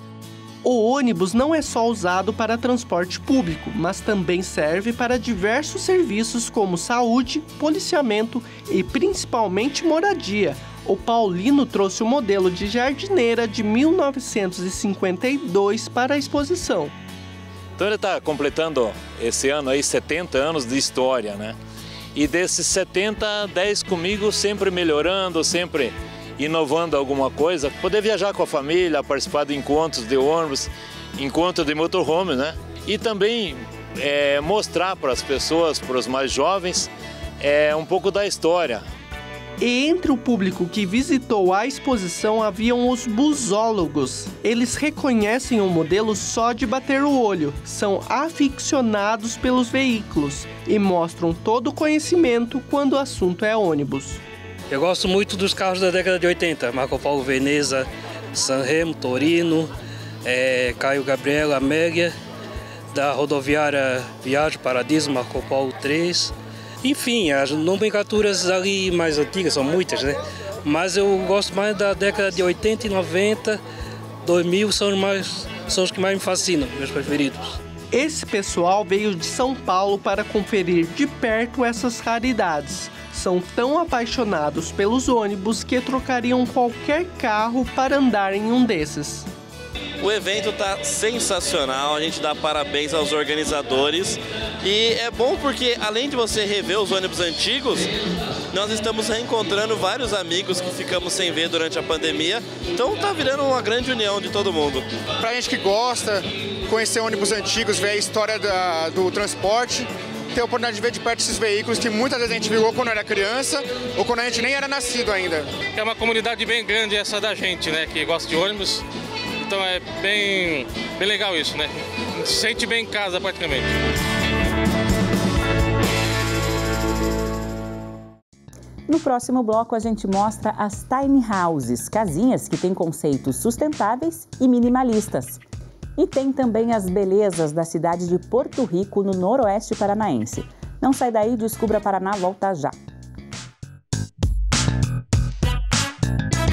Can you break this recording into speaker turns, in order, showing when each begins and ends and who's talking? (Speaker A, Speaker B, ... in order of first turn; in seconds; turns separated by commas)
Speaker A: 0.6-16.9, Speaker B: 17.8-21.6, Speaker B: 22.1-38.9, Speaker A: 39.6-54.2, Speaker C: 54.7-59.7, Speaker C: 60.2-62.2, Speaker C: 62.9-73.6, Speaker C: 74.2-77.6, Speaker A: 77.9-89.3, Speaker D: 90.0-97.9, Speaker D: 98.5-104.9, Speaker E: 105.2-115.4, Speaker F: 115.7-118.8, Speaker F: 119.4-123.7, Speaker G: 128.9-135.4, Speaker G: 136.0-142.8